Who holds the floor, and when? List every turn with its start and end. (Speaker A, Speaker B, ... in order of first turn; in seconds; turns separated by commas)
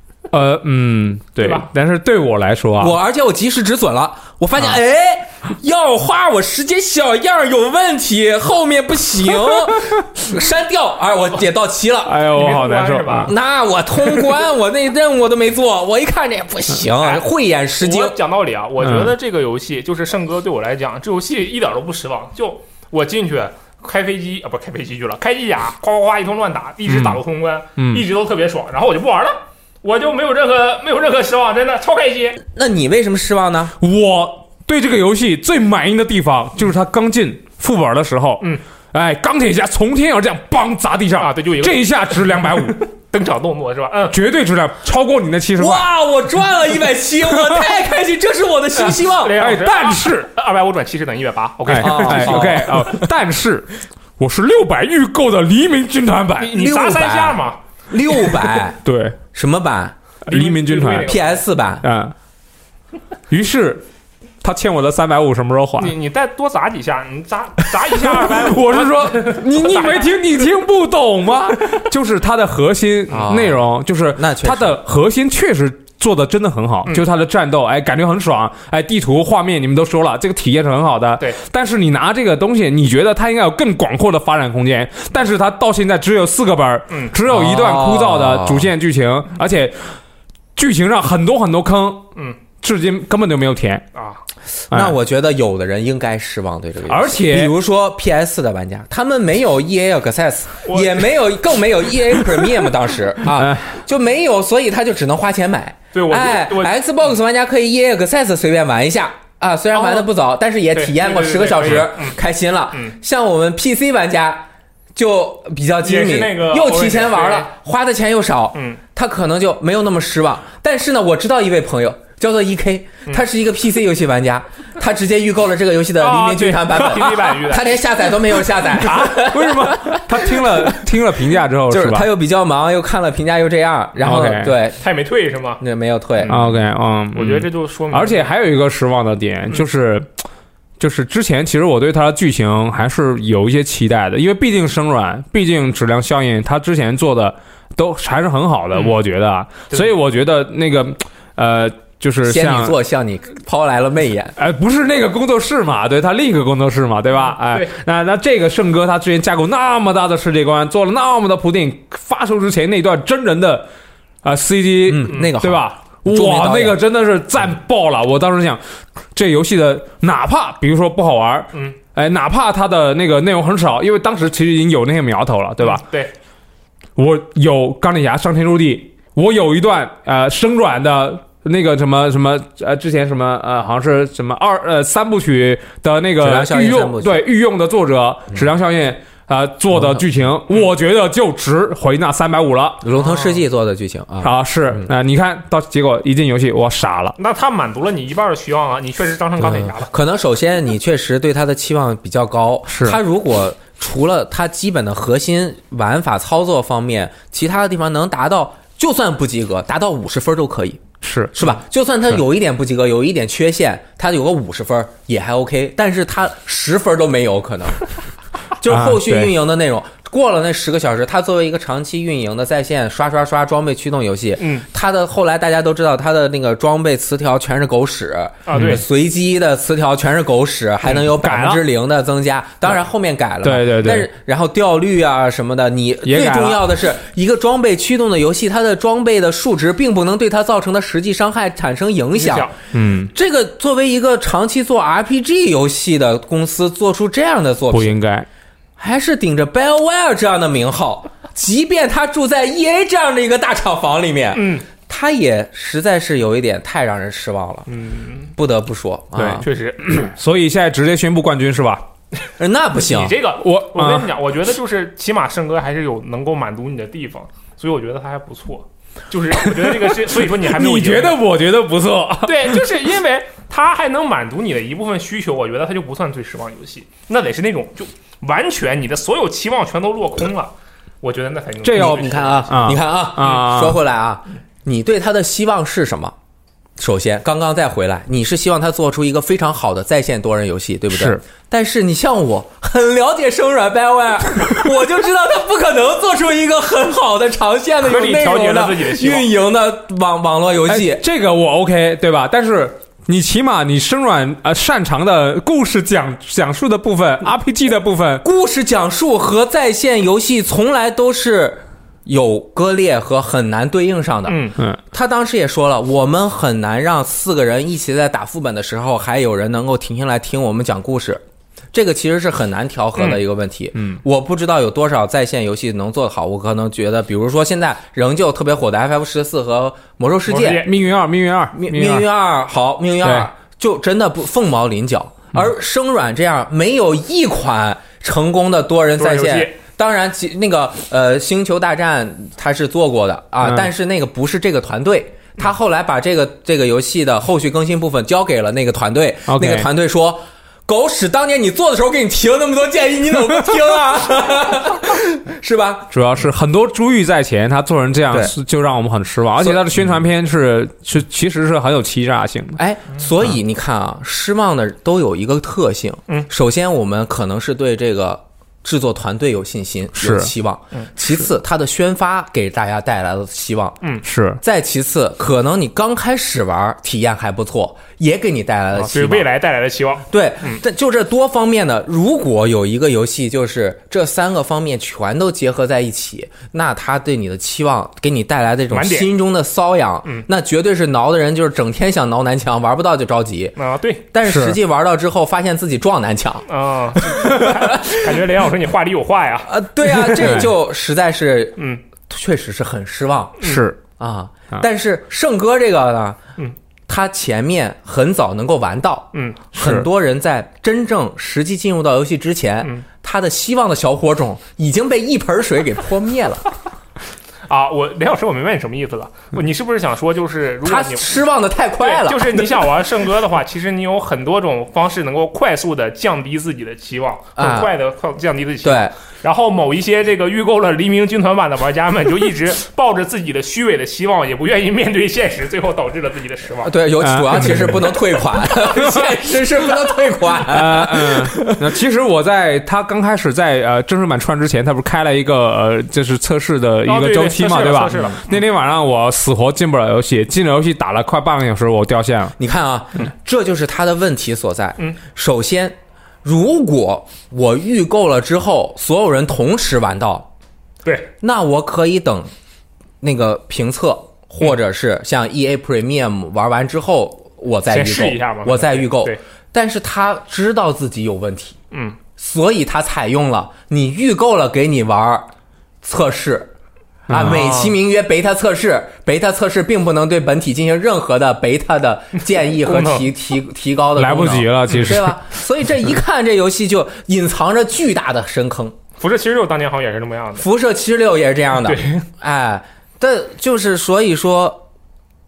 Speaker A: 0.3-3.0, Speaker B: 1.4-1.7, Speaker C: 2.8-12.2, Speaker A: 12.0-13.3, Speaker B: 12.3-13.3, Speaker C: 13.3-18.1, Speaker B: 17.0-32.4, Speaker A: 18.8-19.1, Speaker A: 26.9-27.2, Speaker A: 27.8-28.0, Speaker C: 32.4-33.8, Speaker A: 33.8-42.8, Speaker B: 41.2-41.9, Speaker B: 43.1-44.1, Speaker A: 44.1-45.9, Speaker C: 45.6-49.4, Speaker B: 49.1-52.7, Speaker A: 49.4-50.2, Speaker A: 51.6-56.6, Speaker C: 51.8-53.0, Speaker B: 56.4-57.6, Speaker C: 56.5-58.8, Speaker A: 58.8-59.2, Speaker C: 59.3-59.9, Speaker B: 60.2-61.4, Speaker A: 60.3-61.2, Speaker C: 61.0-61.9, Speaker A: 61.8-62.1, Speaker A: 63.3-63.8, Speaker A: 64.4-65.9, Speaker B: 65.8-70.2, Speaker A: 67.9-89.9, Speaker C: 73.1-74.8, Speaker C: 87.2-88.7, Speaker A: 90.5-92.1, Speaker A: 92.6-93.9, Speaker B: 93.9-94.2, Speaker C: 94.7-130.8, Speaker A: 96.9-97.5, Speaker B: 100.6-101.0, Speaker A: 103.3-103.7, Speaker B: 105.9-106.8, Speaker B: 109.7-110.1, Speaker B: 110.7-112.2, Speaker B: 115.8-117.5, Speaker B: 118.5-118.8, Speaker B: 126.0-127.7, Speaker A: 128.7-132.1, Speaker C: 131.7-134.8, Speaker A: 134.0-134.6, Speaker B: 134.8-135.6, Speaker C: 135.6-136.3, Speaker B: 136.2-136.5, Speaker A: 136.3-140.1, Speaker B: 137.1-138.3, Speaker A: 140.8-152.7, Speaker C: 152.2-154.3, Speaker A: 154.4-163.7, Speaker B: 157.4-157.7, Speaker A: 164.2-168.6, Speaker C: 164.8-166.8, Speaker A: 169.1-175.8, Speaker B: 175.6-176.1, Speaker A: 176.9-192.8, Speaker C: 186.2-187.2, Speaker C: 189.7-190.0, Speaker C: 192.8-194.9, Speaker B: 193.0-193.4, Speaker A: 194.2-197.2, Speaker B: 197.2-199.9, Speaker C: 199.7-217.8, Speaker A: 202.7-203.0, Speaker A: 211.0-211.5, Speaker C: 218.6-242.5, Speaker A: 218.7-219.3, Speaker B: 224.4-224.7, Speaker B: 228.4-228.8, Speaker A: 228.5-228.8, Speaker A: 231.2-231.6, Speaker A: 233.4-234.1, Speaker A: 236.0-236.6, Speaker B: 242.2-242.5, Speaker A: 242.7-243.1, Speaker C: 243.1-247.9, Speaker A: 247.7-248.3, Speaker C: 248.8-257.7, Speaker B: 254.3-254.6, Speaker B: 257.7-258.3, Speaker C: 258.4-259.4, Speaker A: 259.1-261.8, Speaker B: 259.4-260.1, Speaker C: 262.4-263.1, Speaker B: 262.8-271.2, Speaker A: 263.4-264.1, Speaker A: 269.3-272.6, Speaker B: 272.2-282.7, Speaker A: 281.6-283.8, Speaker C: 281.7-286.1, Speaker C: 286.8-301.0, Speaker A: 290.9-291.2, Speaker B: 297.8-299.3, Speaker A: 300.7-308.2, Speaker C: 308.2-321.2, Speaker B: 314.3-314.6, Speaker C: 321.7-330.7, Speaker B: 330.3-330.7, Speaker A: 330.5-332.1, Speaker C: 331.5-355.9, Speaker A: 333.0-333.3, Speaker B: 339.0-339.5, Speaker A: 349.3-349.7, Speaker A: 355.9-362.6, Speaker C: 359.4-359.8, Speaker C: 362.6-373.8, Speaker A: 369.9-370.3, Speaker A: 374.0-374.4, Speaker C: 374.4-379.3, Speaker B: 378.7-380.6, Speaker C: 380.1-393.6, Speaker B: 388.7-389.1, Speaker B: 393.6-394.0, Speaker C: 394.1-396.4, Speaker A: 394.2-394.6, Speaker B: 396.5-400.3, Speaker C: 397.0-398.1, Speaker C: 399.4-406.2, Speaker A: 400.1-400.5, Speaker B: 401.6-401.8, Speaker A: 403.4-403.8, Speaker C: 406.9-416.4, Speaker B: 409.1-409.4, Speaker A: 409.5-409.9, Speaker B: 417.5-421.2, Speaker C: 420.6-422.7, Speaker B: 421.8-436.7, Speaker C: 427.4-427.7, Speaker C: 428.6-428.9, Speaker C: 436.6-441.6, Speaker A: 437.0-437.9, Speaker A: 438.5-439.2, Speaker A: 440.5-452.3, Speaker B: 446.9-448.4, Speaker C: 452.4-460.3, Speaker B: 460.8-461.1, Speaker C: 461.2-462.3, Speaker C: 463.0-471.6, Speaker B: 467.7-469.2, Speaker B: 471.7-472.0, Speaker C: 472.2-475.3, Speaker C: 475.8-476.5, Speaker A: 477.1-477.5, Speaker C: 477.1-488.7, Speaker B: 477.1-477.8, Speaker B: 482.4-483.1, Speaker A: 484.0-485.2, Speaker B: 489.0-490.5, Speaker C: 490.4-494.6, Speaker B: 491.6-492.0